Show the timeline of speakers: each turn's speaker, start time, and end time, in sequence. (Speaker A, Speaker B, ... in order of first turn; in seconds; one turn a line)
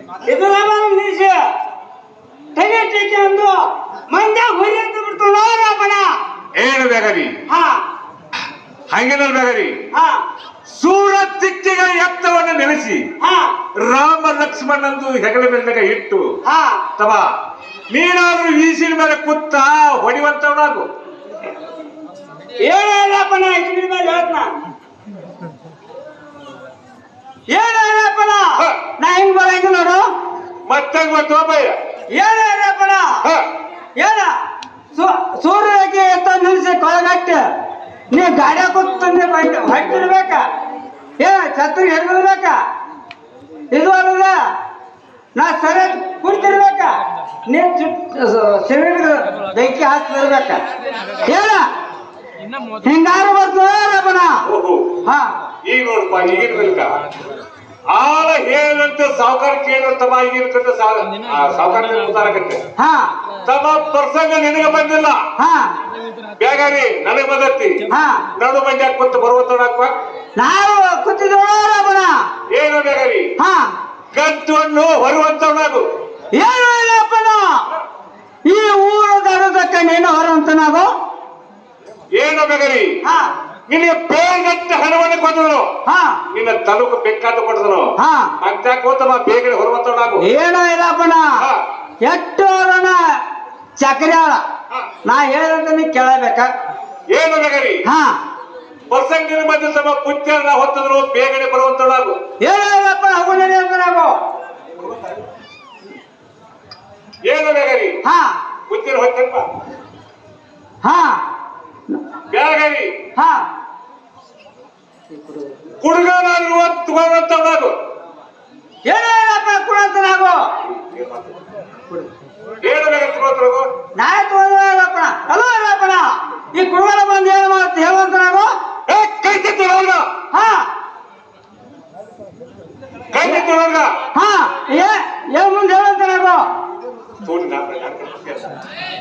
Speaker A: 0.2-1.4
Speaker A: 2.5-3.6
Speaker A: 4.1-6.1
Speaker B: 6.6-7.3
Speaker A: 7.5-7.8
Speaker B: 8.9-9.8
Speaker A: 9.9-10.2
Speaker B: 10.7-13.0
Speaker A: 13.2-13.5
Speaker B: 13.8-16.2
Speaker A: 16.5-16.8
Speaker B: 17.0-17.3
Speaker B: 17.9-20.9
Speaker A: 22.6-24.5
Speaker A: 27.5-30.0
Speaker B: 30.7-31.8
Speaker A: 32.1-33.1
Speaker A: 34.0-34.3
Speaker A: 34.9-37.4
Speaker A: 38.1-40.5
Speaker A: 41.2-42.6
Speaker A: 43.7-44.4
Speaker A: 45.4-46.9
Speaker A: 47.5-50.6
Speaker A: 51.2-51.6
Speaker A: 52.8-54.3
Speaker B: 54.5-54.9
Speaker B: 55.7-57.0
Speaker B: 57.9-62.6
Speaker A: 62.8-63.1
Speaker B: 63.5-65.2
Speaker A: 65.4-65.7
Speaker B: 66.4-67.8
Speaker A: 67.9-68.2
Speaker B: 68.4-69.9
Speaker A: 70.4-72.1
Speaker B: 72.5-73.3
Speaker A: 73.4-73.7
Speaker B: 74.1-75.9
Speaker A: 76.3-77.5
Speaker A: 78.5-80.9
Speaker B: 82.2-82.9
Speaker B: 83.7-85.7
Speaker A: 85.9-86.2
Speaker B: 86.3-90.2
Speaker A: 88.0-88.3
Speaker A: 90.2-91.4
Speaker A: 92.0-93.0
Speaker A: 93.8-94.4
Speaker A: 95.0-96.5
Speaker B: 97.1-97.8
Speaker A: 97.9-98.2
Speaker B: 98.9-102.2
Speaker A: 102.4-104.1
Speaker B: 107.2-108.0
Speaker A: 108.0-108.4
Speaker B: 108.7-109.5
Speaker A: 110.8-111.2
Speaker B: 112.3-112.9
Speaker A: 113.2-113.4
Speaker B: 115.8-117.8
Speaker A: 118.9-120.4
Speaker B: 120.6-121.4
Speaker B: 122.6-123.7
Speaker A: 124.0-128.5
Speaker B: 128.9-130.1
Speaker A: 130.3-130.7
Speaker B: 133.1-133.9
Speaker A: 134.1-136.4
Speaker B: 137.2-138.6